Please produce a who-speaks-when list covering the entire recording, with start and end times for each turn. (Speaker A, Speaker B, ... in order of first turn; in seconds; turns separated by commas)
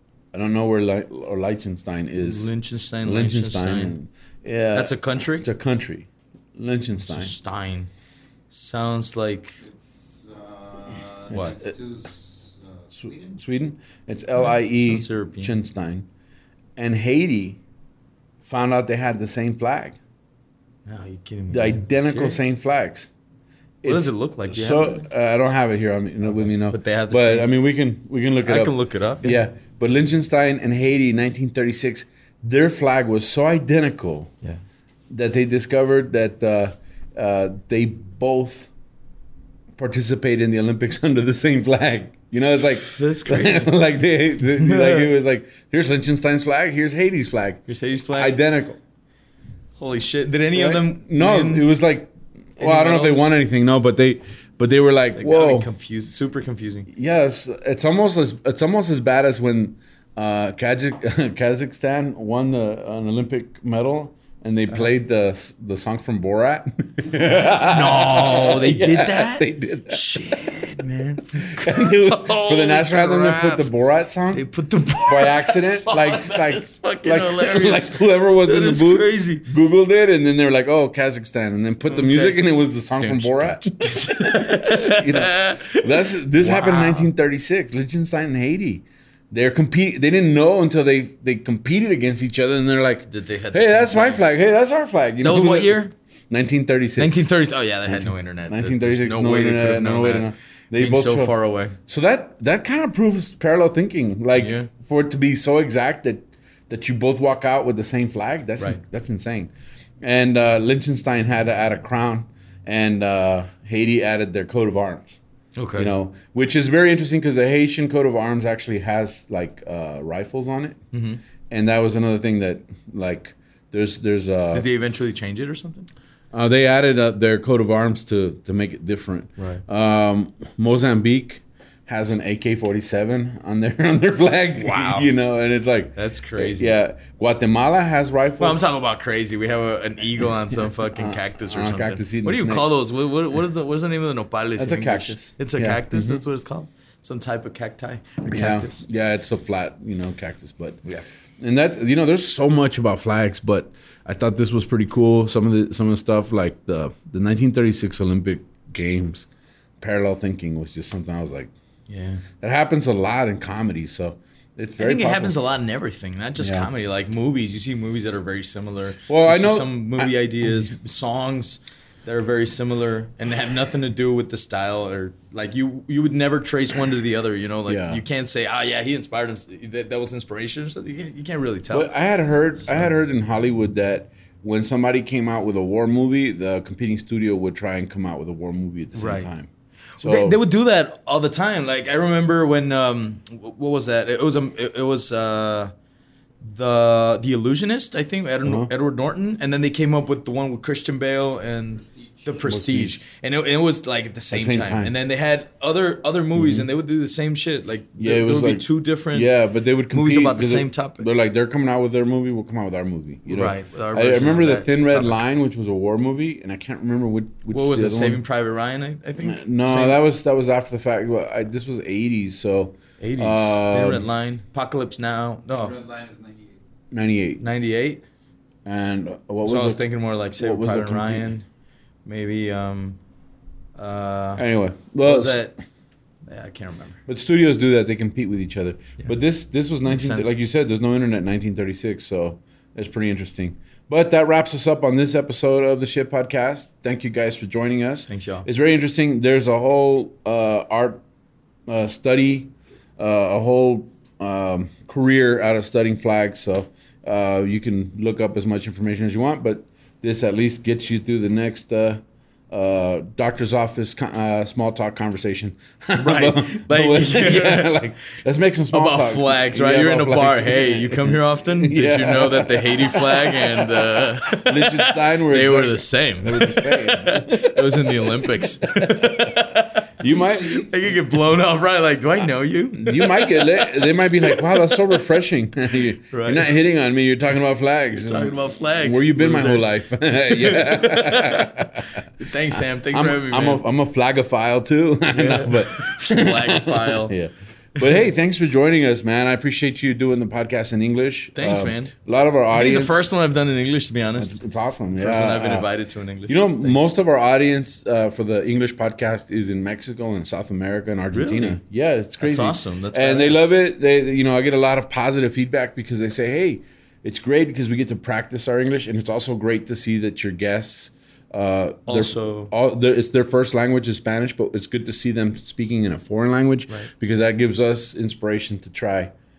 Speaker A: 0.3-2.5, Speaker B: 2.2-4.0, Speaker A: 3.0-7.3, Speaker B: 4.7-5.5, Speaker B: 7.0-7.9, Speaker B: 8.5-9.6, Speaker C: 9.6-13.4, Speaker A: 11.3-11.7, Speaker B: 11.3-11.6, Speaker A: 13.0-16.1, Speaker B: 14.4-15.6, Speaker A: 16.8-17.6, Speaker A: 18.4-20.0, Speaker B: 20.9-22.5, Speaker A: 21.5-23.1, Speaker A: 23.8-34.3, Speaker B: 23.8-25.0, Speaker B: 26.3-27.5, Speaker B: 28.4-29.4, Speaker A: 35.1-38.7, Speaker A: 39.8-48.8, Speaker B: 42.8-43.7, Speaker B: 44.5-45.1, Speaker B: 47.7-48.4, Speaker B: 49.8-51.7, Speaker A: 50.5-55.7, Speaker B: 52.6-53.3, Speaker B: 55.1-56.9, Speaker A: 56.9-70.7, Speaker B: 67.2-73.7, Speaker A: 71.4-74.4, Speaker B: 74.3-79.4, Speaker A: 75.0-97.3, Speaker B: 81.9-82.4, Speaker B: 83.0-87.1, Speaker B: 93.1-94.3, Speaker B: 95.2-95.9, Speaker B: 97.0-101.8, Speaker A: 97.9-101.3, Speaker A: 101.8-115.2, Speaker B: 104.3-104.7, Speaker B: 115.6-115.9, Speaker A: 115.8-120.8, Speaker B: 120.9-121.2, Speaker A: 121.5-124.7, Speaker B: 124.5-125.9, Speaker A: 126.3-138.7, Speaker B: 129.4-129.6, Speaker B: 134.6-135.1, Speaker B: 135.9-136.7, Speaker B: 138.4-148.8, Speaker A: 140.8-142.7, Speaker A: 144.6-146.2, Speaker A: 148.3-150.8, Speaker A: 151.4-159.3, Speaker A: 159.8-161.5, Speaker B: 161.9-162.2, Speaker A: 162.4-165.4, Speaker B: 164.8-181.9, Speaker A: 166.4-166.7, Speaker A: 169.1-170.7, Speaker A: 177.7-178.0, Speaker A: 181.7-190.4, Speaker B: 188.9-189.3, Speaker B: 190.0-195.7, Speaker B: 196.4-209.3, Speaker A: 198.4-198.7, Speaker C: 201.8-202.2, Speaker A: 202.4-203.0, Speaker A: 204.3-204.9, Speaker A: 206.3-206.7, Speaker A: 208.0-218.2, Speaker B: 209.9-211.0, Speaker B: 213.3-215.2, Speaker B: 217.5-220.0, Speaker A: 219.2-224.1, Speaker B: 223.0-225.8, Speaker C: 225.5-226.6, Speaker A: 226.9-227.4, Speaker B: 227.4-228.0, Speaker A: 228.6-229.8, Speaker B: 229.4-231.4, Speaker A: 230.4-231.3, Speaker B: 232.0-233.0, Speaker B: 233.8-234.4, Speaker A: 234.4-235.5, Speaker B: 235.0-235.5, Speaker B: 236.3-237.0, Speaker A: 237.1-251.0, Speaker B: 239.9-240.3, Speaker B: 248.1-248.5, Speaker A: 251.7-280.6, Speaker B: 266.0-267.7, Speaker B: 268.7-279.9, Speaker B: 280.4-284.8, Speaker A: 282.7-292.0, Speaker B: 286.1-286.5, Speaker B: 287.9-289.7, Speaker B: 290.3-293.6, Speaker A: 292.9-303.1, Speaker B: 295.1-297.1, Speaker B: 301.3-301.9, Speaker B: 302.5-304.4, Speaker A: 304.2-305.7, Speaker B: 304.9-306.9, Speaker A: 306.3-329.1, Speaker B: 311.1-311.6, Speaker B: 312.2-313.5, Speaker B: 321.9-322.5